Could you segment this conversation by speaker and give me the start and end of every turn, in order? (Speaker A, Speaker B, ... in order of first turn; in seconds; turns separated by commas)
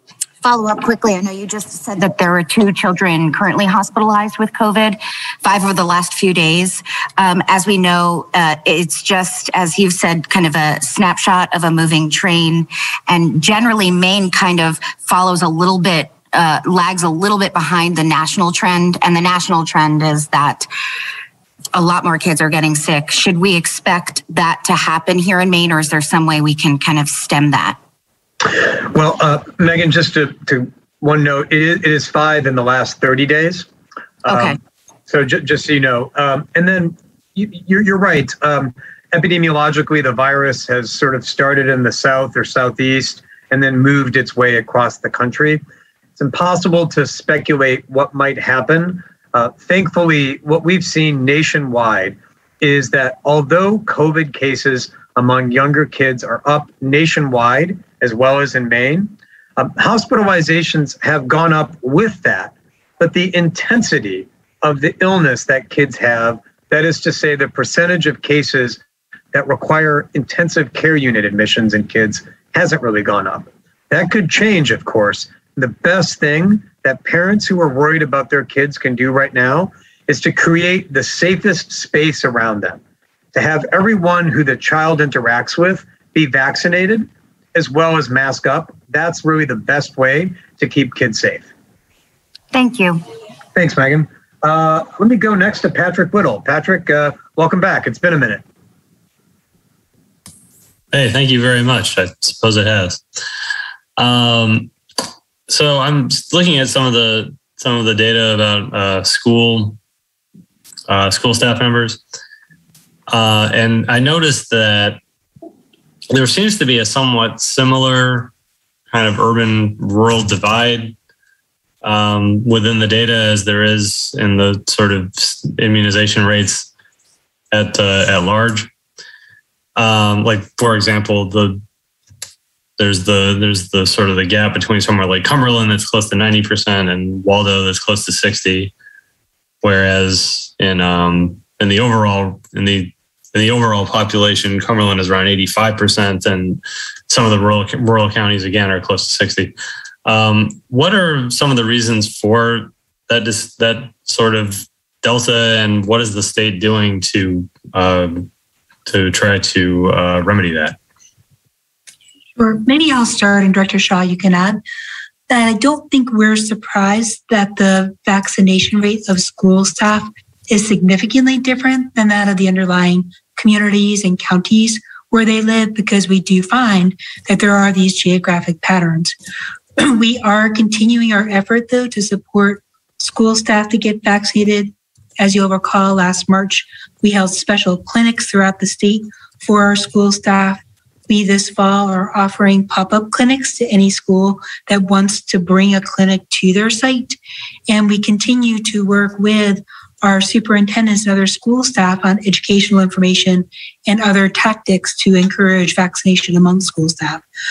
Speaker A: 0.4-20.7, Speaker A: 21.7-27.8, Speaker B: 28.6-33.7, Speaker B: 34.2-34.6, Speaker A: 34.3-34.6, Speaker B: 35.1-45.6, Speaker B: 46.2-68.8, Speaker B: 69.3-82.8, Speaker B: 83.3-91.5, Speaker A: 92.5-93.0, Speaker B: 93.5-98.4, Speaker C: 100.9-103.0, Speaker C: 104.0-104.7, Speaker C: 105.5-109.8, Speaker C: 110.9-112.0, Speaker C: 113.1-115.0, Speaker C: 116.1-118.3, Speaker C: 118.9-121.0, Speaker C: 121.8-126.7, Speaker C: 127.5-128.7, Speaker C: 129.8-131.6, Speaker C: 132.8-138.7, Speaker C: 139.6-158.3, Speaker C: 158.8-160.8, Speaker D: 162.3-164.6, Speaker D: 165.3-179.1, Speaker D: 179.8-207.2